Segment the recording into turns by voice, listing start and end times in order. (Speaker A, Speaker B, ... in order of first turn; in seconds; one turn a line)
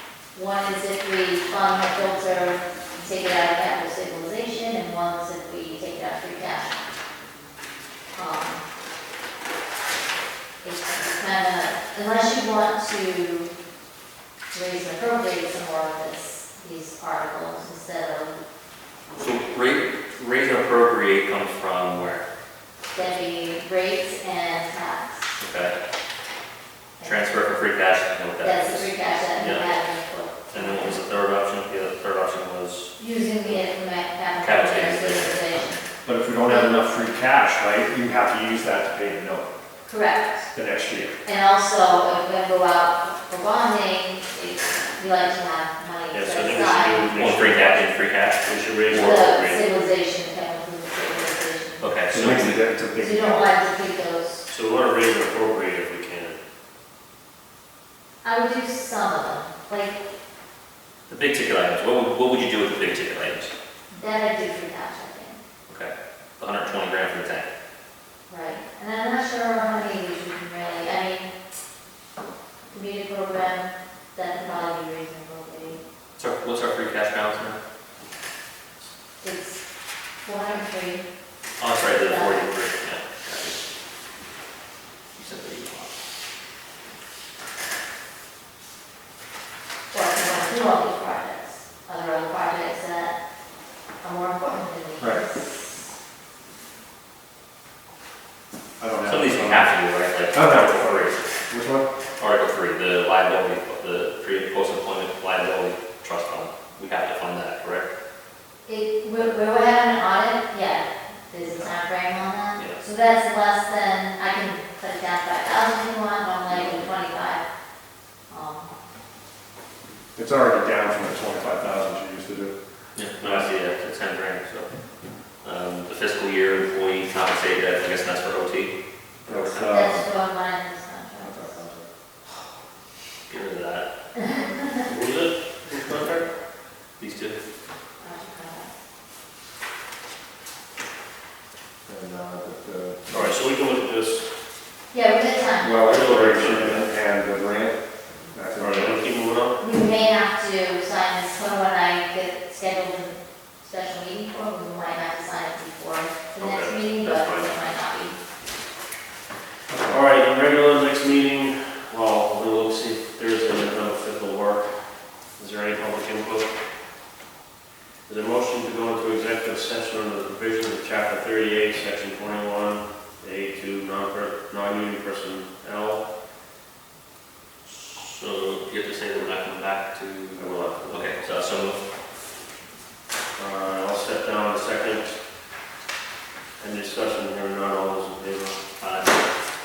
Speaker A: 0.3-6.7
Speaker A: 8.2-8.6
Speaker A: 10.6-13.5
Speaker A: 14.5-18.4
Speaker B: 19.1-22.2
Speaker A: 22.9-25.3
Speaker B: 25.4-25.8
Speaker A: 27.0-27.3
Speaker B: 27.0-29.8
Speaker A: 28.4-31.0
Speaker B: 30.5-32.9
Speaker A: 33.0-35.9
Speaker B: 34.4-35.3
Speaker C: 36.0-39.5
Speaker A: 36.5-36.7
Speaker A: 39.9-40.5
Speaker C: 40.5-41.1
Speaker A: 41.2-47.1
Speaker D: 46.1-47.9
Speaker B: 47.1-49.2
Speaker D: 48.4-49.6
Speaker A: 48.9-51.9
Speaker B: 51.8-52.6
Speaker C: 52.1-53.4
Speaker A: 53.0-54.5
Speaker D: 54.5-56.4
Speaker A: 58.2-60.0
Speaker B: 61.1-63.5
Speaker A: 63.9-65.4
Speaker B: 65.7-67.5
Speaker A: 68.3-71.3
Speaker A: 72.7-75.8
Speaker B: 76.2-77.6
Speaker A: 79.2-79.6
Speaker A: 80.2-81.0
Speaker B: 81.6-83.6
Speaker A: 82.0-82.5
Speaker B: 85.2-86.0
Speaker A: 89.9-93.2
Speaker A: 94.0-95.8
Speaker C: 98.8-99.7
Speaker B: 99.0-101.2
Speaker C: 100.3-101.9
Speaker B: 102.2-107.9
Speaker A: 108.7-117.4
Speaker B: 112.5-112.8
Speaker A: 118.3-118.7
Speaker C: 120.1-122.6
Speaker B: 122.9-124.7
Speaker B: 125.4-128.7
Speaker B: 129.3-129.5
Speaker C: 129.3-130.0
Speaker A: 129.6-131.6
Speaker C: 131.2-131.8
Speaker B: 133.3-133.9
Speaker A: 134.2-134.8
Speaker D: 134.8-136.3
Speaker B: 137.0-137.4
Speaker A: 138.0-138.7
Speaker C: 141.8-143.4
Speaker D: 143.1-144.2
Speaker A: 144.9-146.0
Speaker C: 145.6-147.8
Speaker D: 145.8-146.9
Speaker C: 148.3-149.0
Speaker D: 148.6-149.6
Speaker A: 149.6-158.2
Speaker B: 156.3-157.5
Speaker C: 159.7-160.0
Speaker D: 159.8-164.7
Speaker D: 165.4-166.5
Speaker D: 168.1-176.0
Speaker B: 177.8-181.8
Speaker D: 180.3-181.1
Speaker D: 183.3-185.1
Speaker D: 186.6-188.7
Speaker B: 188.8-189.2